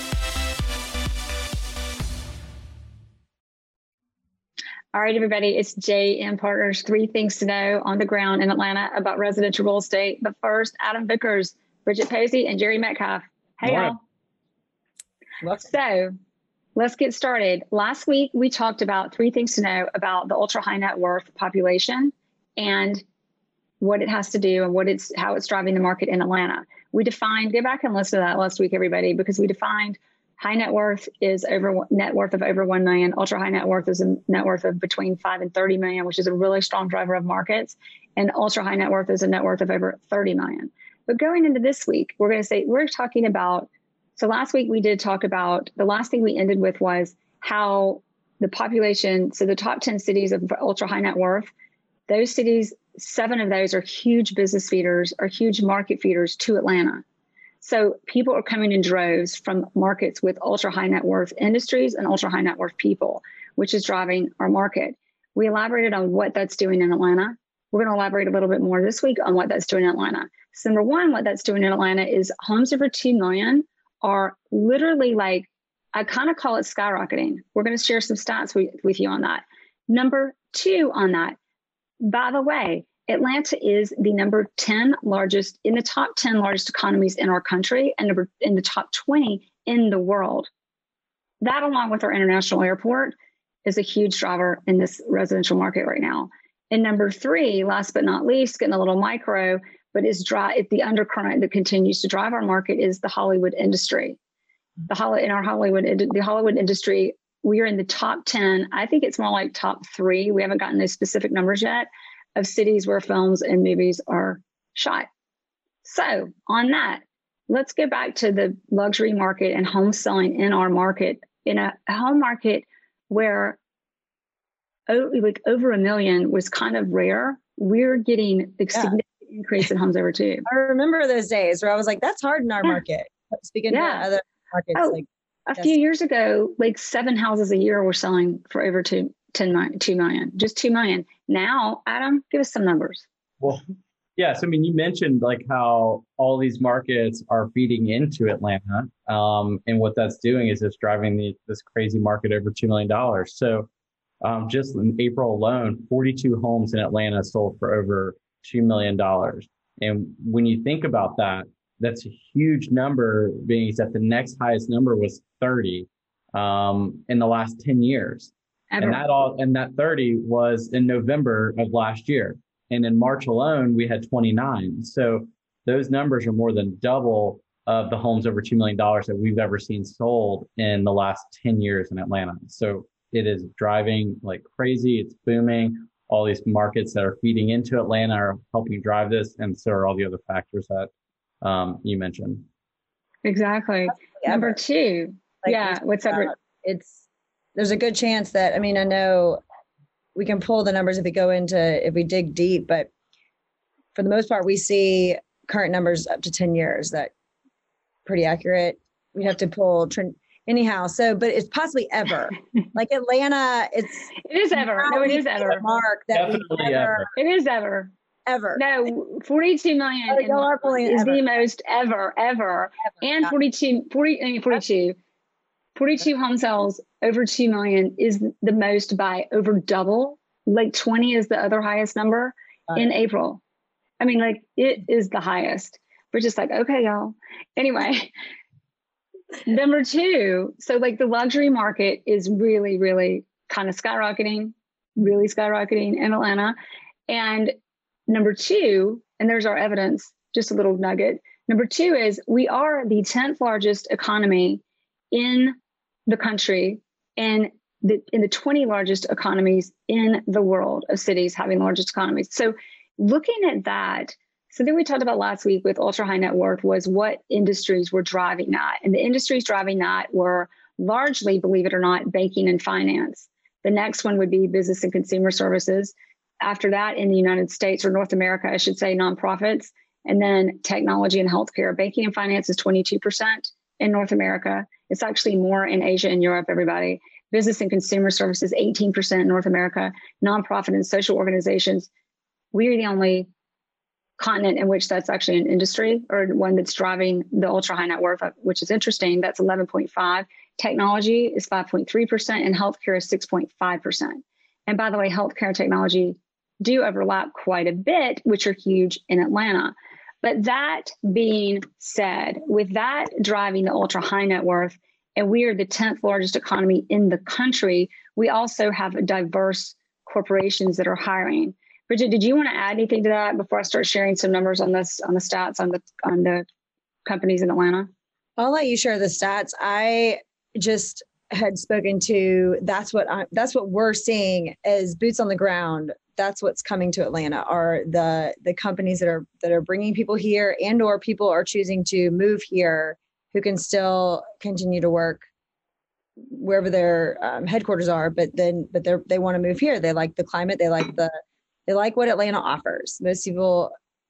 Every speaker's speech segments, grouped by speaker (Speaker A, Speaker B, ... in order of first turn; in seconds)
Speaker A: 4.9-14.0, 15.6-16.1, 16.8-23.0, 23.8-51.5, 52.1-57.0, 57.6-81.4, 82.0-90.5, 91.4-93.1, 93.7-104.2, 104.9-115.1, 115.8-123.6, 124.9-130.4, 133.7-134.1, 134.8-143.1, 168.7-169.1, 193.2-196.3, 214.3-215.7, 217.2-217.9, 218.6-225.0, 225.8-233.4, 234.0-238.1, 239.5-246.6, 247.1-247.5, 248.1-255.6, 256.1-291.9, 292.5-293.3, 294.2-326.4, 327.1-327.9
Speaker B: 13.6-14.0, 144.2-153.7, 154.2-190.9, 191.4-192.5, 216.1-217.1
Speaker C: 15.4-15.7, 130.5-135.1, 194.0-194.6, 195.4-197.0, 197.6-199.4, 200.2-202.9, 203.9-207.1, 208.1-217.1, 218.3-218.6, 220.1-221.2, 328.4-345.2, 346.3-351.1, 351.7-353.7